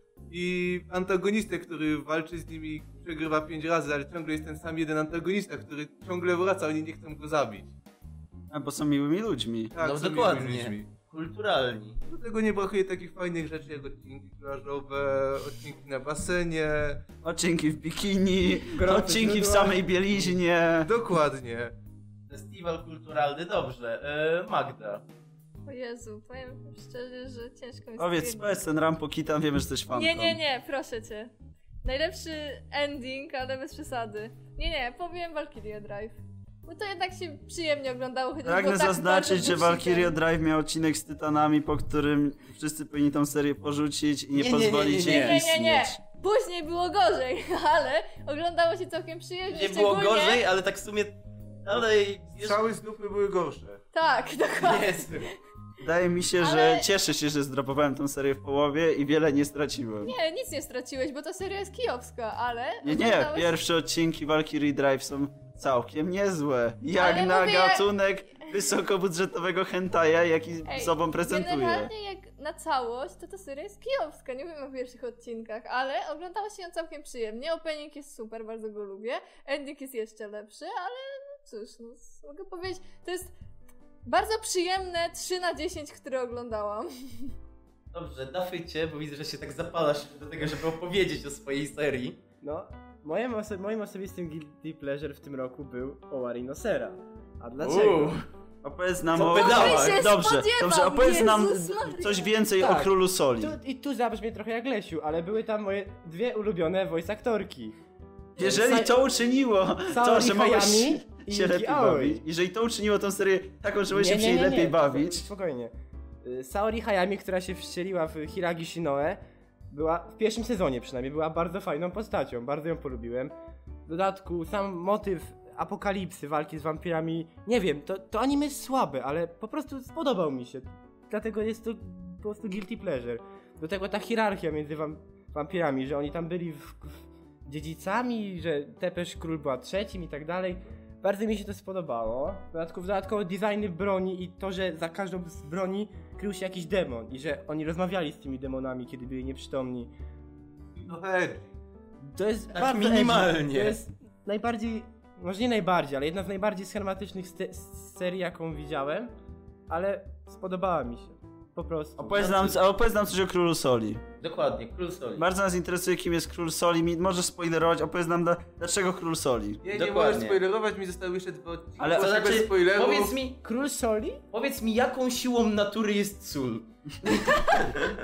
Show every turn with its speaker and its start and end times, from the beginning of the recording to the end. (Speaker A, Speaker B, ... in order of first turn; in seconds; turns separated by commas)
Speaker A: 0.3-7.7, Speaker B: 8.5-9.7, Speaker A: 9.7-10.8, Speaker C: 9.8-12.0, Speaker A: 12.1-17.0, Speaker B: 17.2-20.9, Speaker D: 18.7-19.7, Speaker A: 20.8-21.7, Speaker C: 22.3-25.0, Speaker E: 25.6-28.5, Speaker B: 28.0-30.4, Speaker E: 29.9-31.3, Speaker E: 31.8-40.1, Speaker B: 38.4-46.0, Speaker C: 44.3-45.4, Speaker E: 45.0-50.4, Speaker C: 49.5-52.6, Speaker A: 52.4-53.8, Speaker E: 53.9-55.1, Speaker C: 54.6-55.3, Speaker B: 55.8-60.1, Speaker E: 56.4-56.9, Speaker E: 60.0-63.5, Speaker B: 62.8-71.9, Speaker E: 67.0-67.8, Speaker E: 70.7-83.3, Speaker E: 84.0-87.3, Speaker C: 87.9-92.2, Speaker D: 92.4-98.1, Speaker C: 97.6-98.2, Speaker B: 98.6-103.5, Speaker C: 99.2-100.1, Speaker E: 99.2-102.3, Speaker D: 102.6-107.8, Speaker B: 108.4-115.2, Speaker D: 108.4-108.9, Speaker D: 109.9-112.2, Speaker D: 113.9-115.7, Speaker D: 116.2-119.2, Speaker D: 119.7-123.3, Speaker D: 123.9-149.9, Speaker A: 150.7-151.6, Speaker D: 152.0-159.1, Speaker C: 152.5-153.8, Speaker D: 159.7-162.2, Speaker B: 162.0-164.0, Speaker C: 162.1-162.6, Speaker C: 164.2-165.2, Speaker B: 165.2-169.6, Speaker A: 169.6-173.1, Speaker C: 169.7-170.4, Speaker B: 171.8-172.3, Speaker C: 171.8-173.4, Speaker D: 173.4-174.2, Speaker C: 174.3-177.9